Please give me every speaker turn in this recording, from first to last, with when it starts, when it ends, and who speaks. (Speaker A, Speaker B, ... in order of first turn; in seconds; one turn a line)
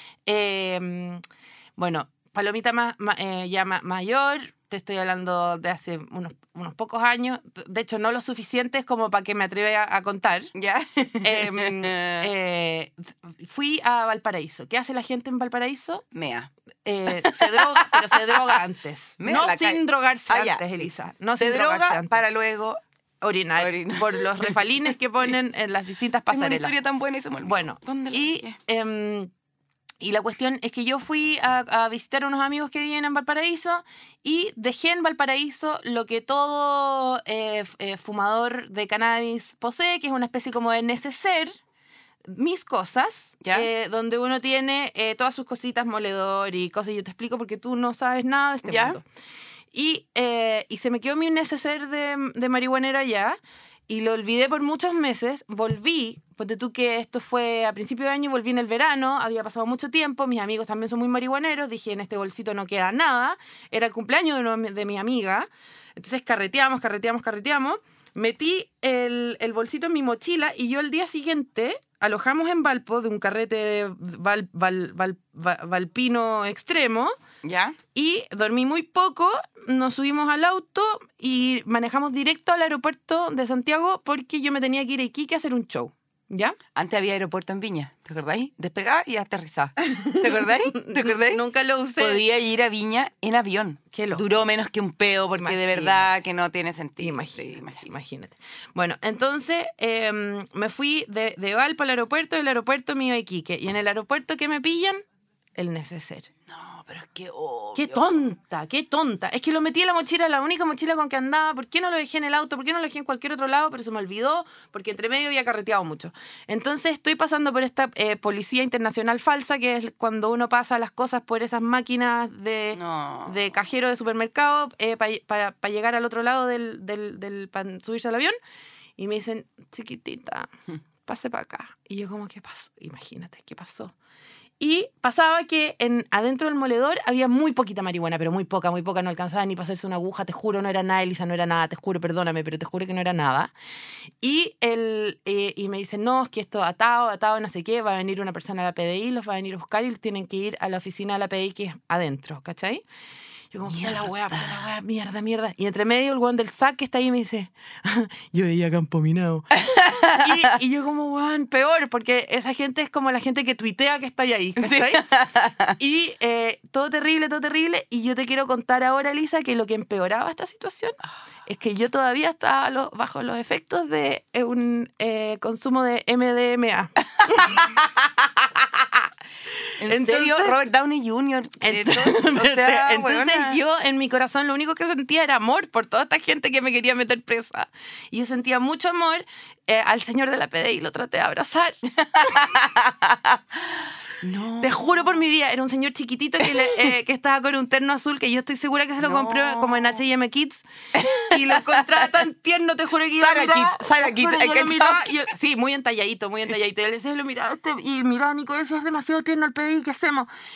Speaker A: 0.2-1.2
Speaker A: 1.8-10.5
Speaker B: 10.5-12.3
Speaker A: 11.2-16.0
Speaker B: 16.1-16.5
Speaker A: 16.8-22.2
Speaker B: 17.2-18.6
Speaker B: 19.2-20.8
Speaker B: 21.4-22.8
Speaker A: 23.2-26.7
Speaker B: 23.6-24.6
Speaker B: 26.3-28.6
Speaker A: 27.4-29.3
Speaker A: 30.0-41.6
Speaker A: 42.3-49.0
Speaker B: 43.4-43.7
Speaker B: 48.6-49.0
Speaker A: 49.7-77.1
Speaker B: 77.4-77.8
Speaker A: 77.9-86.6
Speaker B: 86.7-91.4
Speaker A: 89.9-92.2
Speaker B: 92.0-97.8
Speaker A: 93.9-94.2
Speaker A: 95.4-96.1
Speaker A: 97.0-105.0
Speaker A: 105.5-106.3
Speaker B: 106.5-108.2
Speaker A: 107.8-128.3
Speaker B: 122.7-123.4
Speaker A: 129.0-130.5
Speaker A: 131.1-133.9
Speaker A: 134.6-143.5
Speaker A: 144.2-152.8
Speaker A: 153.5-165.1
Speaker B: 153.7-154.6
Speaker B: 159.5-160.5
Speaker B: 164.6-165.7
Speaker A: 165.8-177.6
Speaker B: 179.8-183.6
Speaker A: 179.8-180.6
Speaker A: 181.6-191.8
Speaker B: 192.0-193.4
Speaker B: 194.2-194.8
Speaker A: 194.6-210.3
Speaker B: 199.0-200.0
Speaker B: 200.9-202.1
Speaker B: 203.2-205.1